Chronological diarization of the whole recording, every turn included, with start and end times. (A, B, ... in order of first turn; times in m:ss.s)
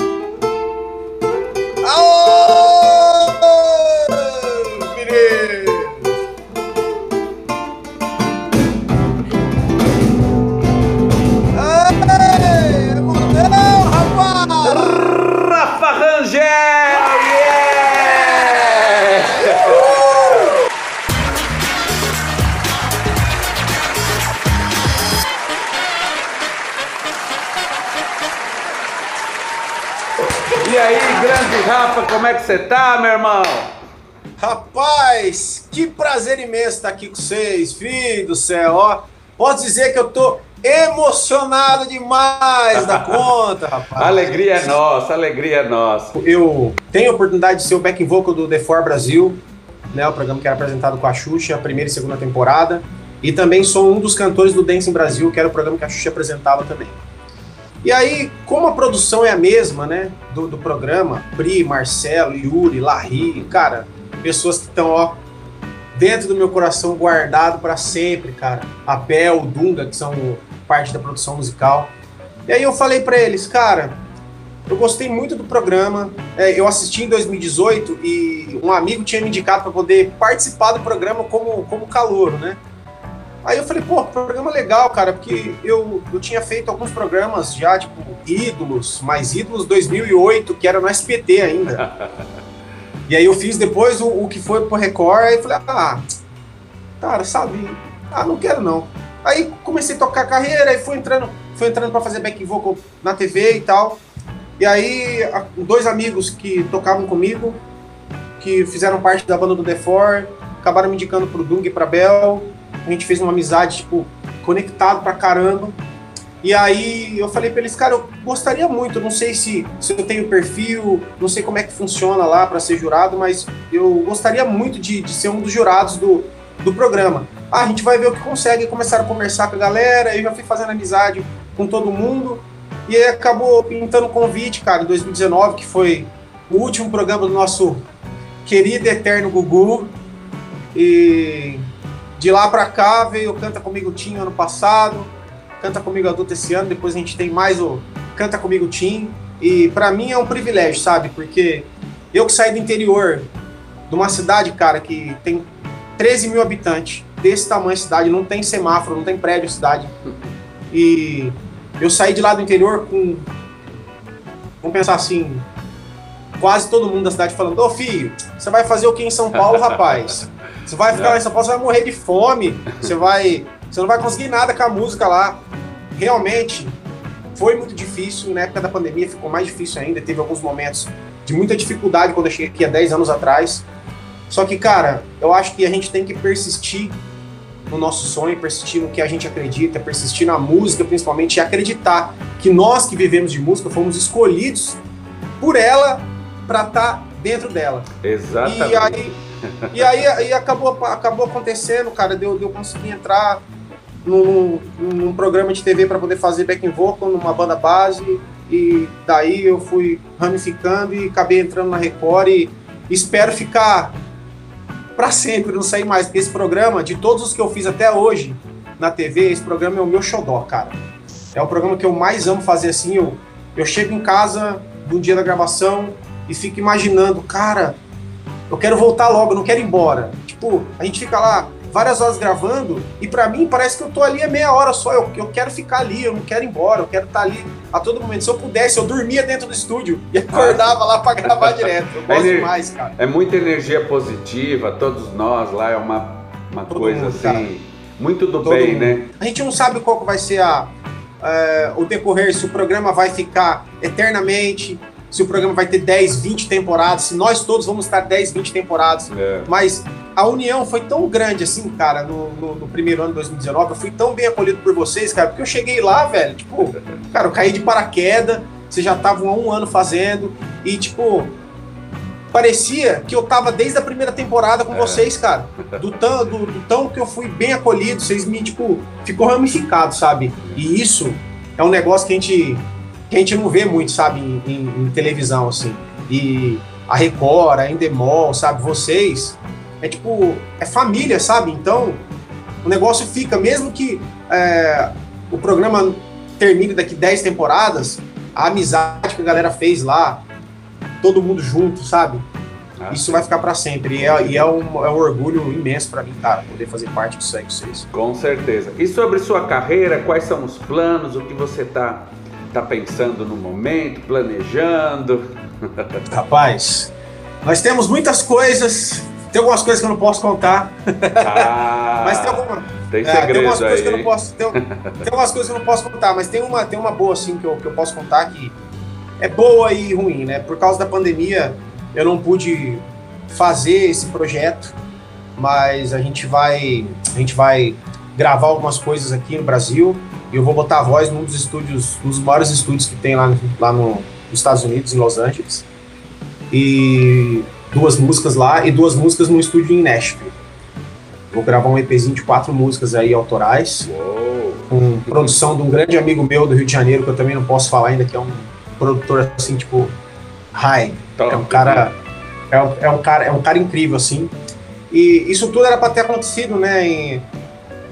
0:01.8-0:06.1 A
0:11.5-0:15.1 A
0:14.6-0:20.0 B
0:19.4-0:20.6 A
0:30.4-0:33.8 B
0:34.4-0:44.8 A
0:42.7-0:43.3 B
0:44.0-0:46.2 B
0:46.1-0:57.0 A
0:57.8-1:05.2 A
1:05.9-1:11.9 A
1:12.5-1:14.0 A
1:14.7-1:22.6 A
1:23.4-1:31.8 A
1:31.8-1:32.2 B
1:33.1-1:36.0 A
1:37.0-1:44.0 A
1:44.6-1:47.6 A
1:48.4-1:55.8 A
1:56.4-2:17.8 A
2:18.4-2:19.9 A
2:20.7-2:21.6 A
2:22.2-2:33.3 A
2:33.9-2:39.9 A
2:40.7-2:43.3 A
2:44.6-2:45.4 A
2:46.4-2:55.4 A
2:49.5-2:50.1 B
2:50.9-2:51.2 B
2:55.9-2:56.8 A
2:57.3-3:03.6 A
3:04.3-3:07.0 A
3:07.7-3:14.8 A
3:15.4-3:17.9 A
3:18.0-3:19.0 B
3:18.4-3:19.2 A
3:19.5-3:19.9 B
3:19.7-3:23.4 A
3:24.0-3:34.0 A
3:35.0-3:40.8 A
3:41.3-3:47.8 A
3:48.5-4:02.9 A
4:00.3-4:09.1 B
4:06.7-4:07.5 A
4:08.4-4:31.3 A
4:19.1-4:19.5 B
4:32.3-4:52.0 A
4:34.7-4:35.1 B
4:52.6-5:00.2 A
5:01.0-5:02.2 A
5:02.8-5:03.3 B
5:02.9-5:07.8 A
5:04.0-5:04.5 B
5:07.9-5:16.0 B
5:16.1-5:16.9 A
5:17.4-5:21.5 A
5:21.2-5:25.0 B
5:22.0-5:28.5 A
5:29.2-5:34.7 A
5:35.4-5:45.6 A
5:46.5-5:50.3 A
5:51.3-5:53.9 A
5:53.8-5:55.3 B
5:54.7-5:59.9 A
6:00.5-6:01.9 A
6:01.2-6:01.9 B
6:02.5-6:04.3 A
6:04.9-6:07.3 A